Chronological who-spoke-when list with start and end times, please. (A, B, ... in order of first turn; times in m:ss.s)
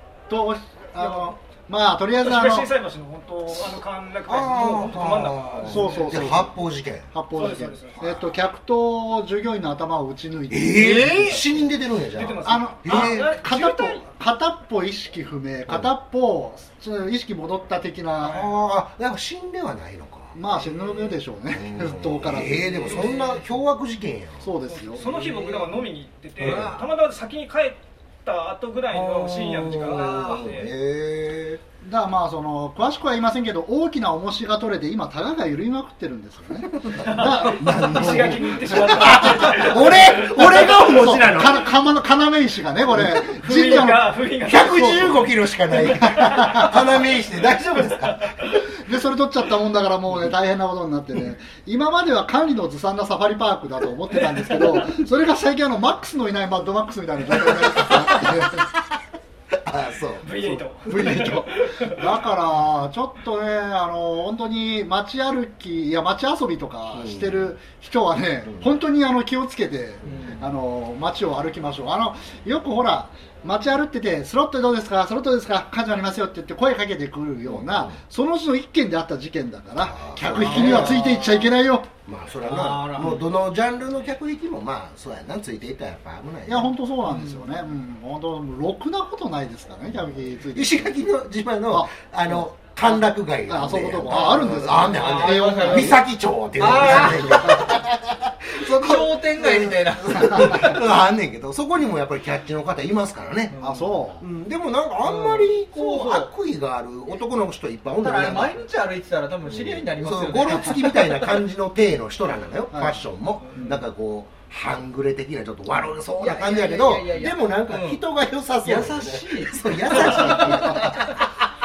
0:00.3-0:02.7 A
0:01.0-0:01.2 B
0:02.2-0:06.1 B
0:04.2-0:07.1 C
0:05.6-0:06.5 A
0:07.1-0:11.4 A
0:07.3-0:08.1 B
0:08.0-0:08.3 C
0:10.5-0:13.3 C
0:10.8-0:11.4 D
0:12.1-0:14.0 B
0:12.4-0:18.5 A
0:18.2-0:20.4 C
0:20.3-0:23.1 A
0:21.5-0:25.8 C
0:22.7-0:23.4 D
0:24.4-0:25.0 A
0:24.7-0:30.7 B
0:26.4-0:26.9 D
0:26.4-0:26.8 C
0:28.9-0:31.6 C
0:29.9-0:30.5 D
0:31.8-0:39.0 A
0:36.8-0:41.7 C
0:37.0-0:40.8 B
0:40.6-0:45.2 A
0:43.3-0:45.2 B
0:44.4-0:48.3 C
0:46.0-0:46.7 B
0:46.1-0:46.7 A
0:48.0-0:48.6 B
0:48.8-0:58.6 A
0:57.7-0:58.4 C
0:59.6-1:00.3 C
1:00.2-1:02.0 B
1:00.4-1:21.9 A
1:06.9-1:07.5 C
1:08.4-1:08.7 C
1:10.0-1:10.4 C
1:10.0-1:10.4 D
1:17.4-1:18.0 C
1:19.8-1:21.1 C
1:20.3-1:21.6 D
1:22.0-1:26.7 C
1:22.4-1:23.2 D
1:26.4-1:31.0 A
1:27.0-1:27.5 D
1:30.3-1:43.6 C
1:31.7-1:36.0 A
1:34.9-1:36.0 D
1:36.6-1:37.7 D
1:36.9-1:37.8 A
1:38.5-1:40.8 D
1:43.5-1:44.0 D
1:43.6-1:44.2 A
1:44.2-1:48.6 C
1:45.0-1:46.3 D
1:48.0-1:51.3 D
1:49.4-2:01.2 C
1:52.7-1:53.0 A
1:56.2-1:58.0 D
1:58.6-2:00.9 D
2:00.1-2:00.9 A